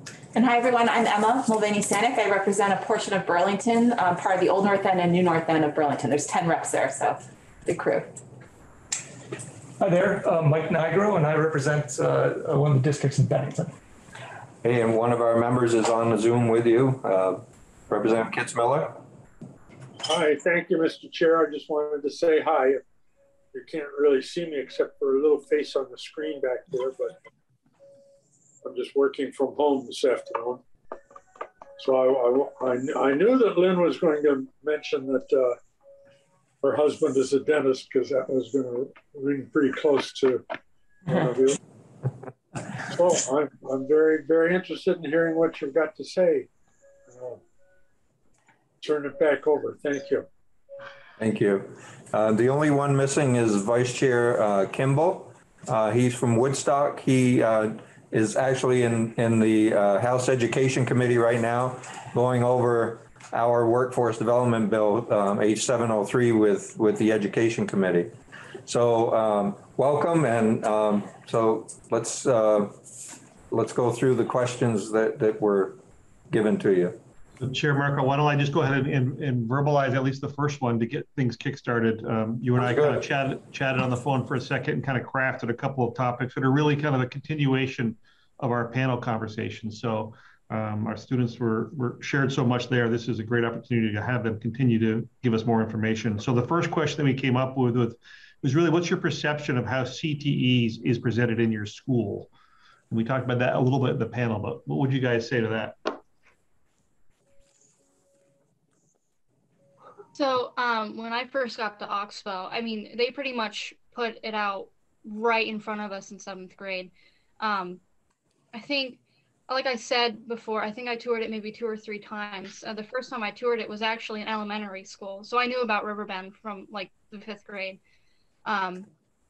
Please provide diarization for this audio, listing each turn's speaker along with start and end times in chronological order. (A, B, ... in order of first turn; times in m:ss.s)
0:00.3-0:08.1 A
0:09.8-0:13.7 B
0:14.6-0:19.0 C
0:20.1-0:22.8 D
0:23.5-0:27.2 D
0:28.6-0:30.6 D
0:31.8-0:35.6 D
0:36.6-0:40.4 D
0:41.1-0:41.6 D
0:42.8-0:46.5 D
0:47.1-0:47.4 D
0:48.8-0:50.3 D
0:51.2-1:08.1 C
1:08.7-1:12.8 C
1:13.5-1:15.8 C
1:16.3-1:17.0 C
1:17.4-1:42.3 E
1:22.6-1:23.0 C
1:42.9-1:46.0 E
1:50.1-1:57.8 F
1:58.5-2:07.8 F
2:08.4-2:08.9 F